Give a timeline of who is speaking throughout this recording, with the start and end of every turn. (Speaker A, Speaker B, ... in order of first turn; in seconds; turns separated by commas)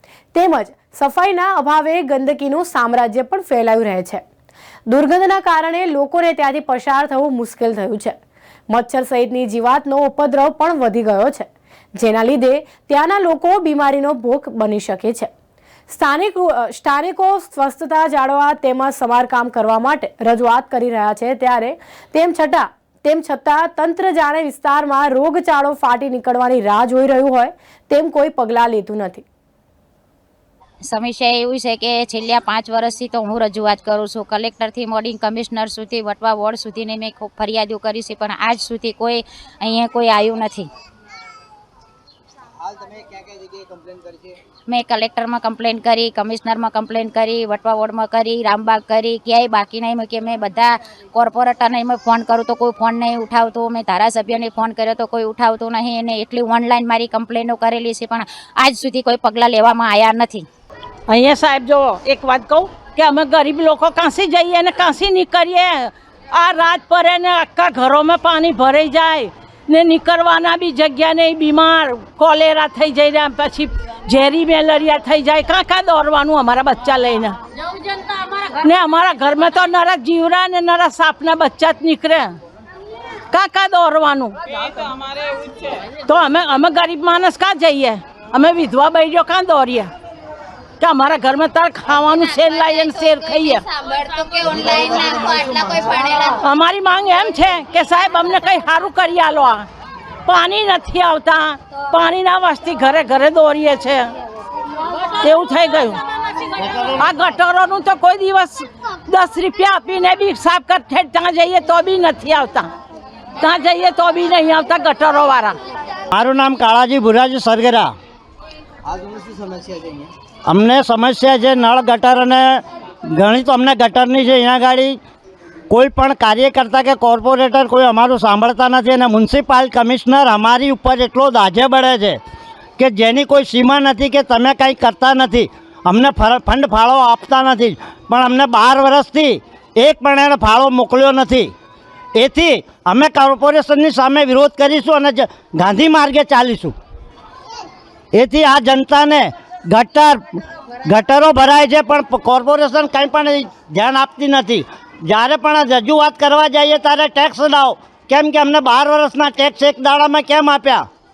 Speaker A: 0.3-4.2, Speaker A: 4.9-8.2, Speaker A: 8.7-15.3, Speaker A: 15.9-29.2, Speaker B: 30.9-40.7, Speaker C: 42.6-44.4, Speaker B: 44.7-60.5, Speaker D: 61.1-77.4, Speaker D: 78.3-82.4, Speaker D: 83.3-89.9, Speaker D: 90.8-93.6, Speaker B: 92.8-96.4, Speaker D: 96.3-99.7, Speaker D: 100.3-104.1, Speaker D: 104.9-106.0, Speaker E: 106.6-107.1, Speaker D: 107.0-112.7, Speaker D: 113.4-115.6, Speaker E: 116.1-117.9, Speaker C: 118.9-120.1, Speaker E: 120.5-125.0, Speaker E: 125.7-132.2, Speaker E: 132.8-141.5, Speaker E: 142.1-146.8, Speaker E: 148.1-160.8